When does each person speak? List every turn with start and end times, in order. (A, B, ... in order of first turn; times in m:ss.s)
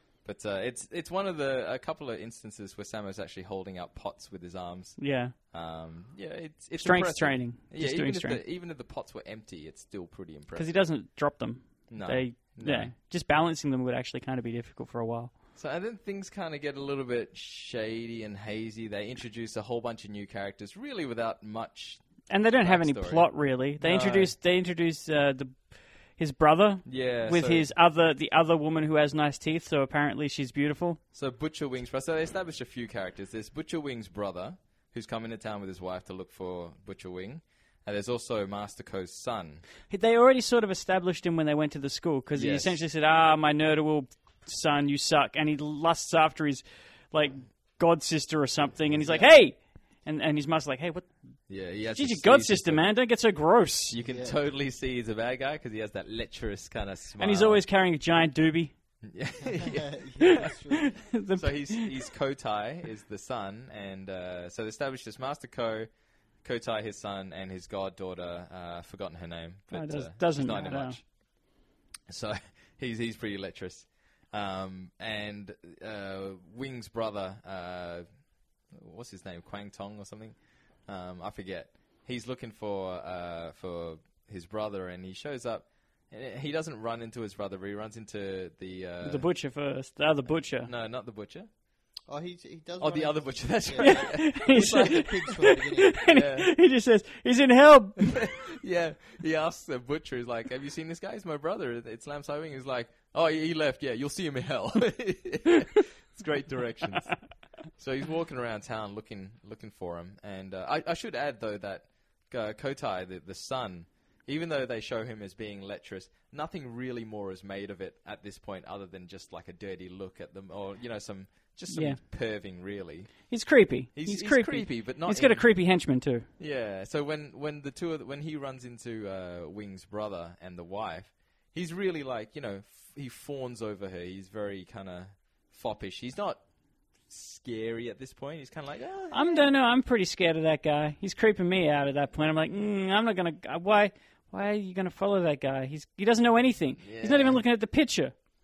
0:00.2-0:10.9 A
0:05.0-0:05.4 B
0:06.8-0:08.4 B
0:10.6-0:15.3 B
0:11.9-0:12.9 A
0:15.6-0:22.0 A
0:22.3-0:31.0 B
0:22.6-0:24.4 A
0:26.9-0:27.7 A
0:31.1-0:39.7 A
0:39.9-0:51.2 B
0:42.4-0:42.8 A
0:48.9-0:49.4 C
0:51.5-0:52.9 A
0:51.9-0:54.0 B
0:53.9-0:57.6 A
0:54.0-0:54.4 C
0:57.2-0:58.7 B
0:59.0-1:00.5 A
0:59.5-1:01.0 C
1:00.2-1:02.0 B
1:01.4-1:05.9 A
1:06.4-1:11.1 A
1:09.7-1:11.0 B
1:12.1-1:18.1 A
1:18.7-1:20.4 A
1:20.9-1:29.3 A
1:29.0-1:30.7 B
1:30.6-1:31.5 A
1:32.1-1:36.0 C
1:32.8-1:35.4 A
1:33.8-1:38.2 B
1:36.0-1:36.5 A
1:38.1-2:03.3 A
2:01.7-2:02.0 B
2:03.3-2:06.3 B
2:03.9-2:05.5 A
2:06.4-2:16.4 A
2:17.1-2:19.5 A
2:19.1-2:28.1 B
2:26.8-2:27.4 A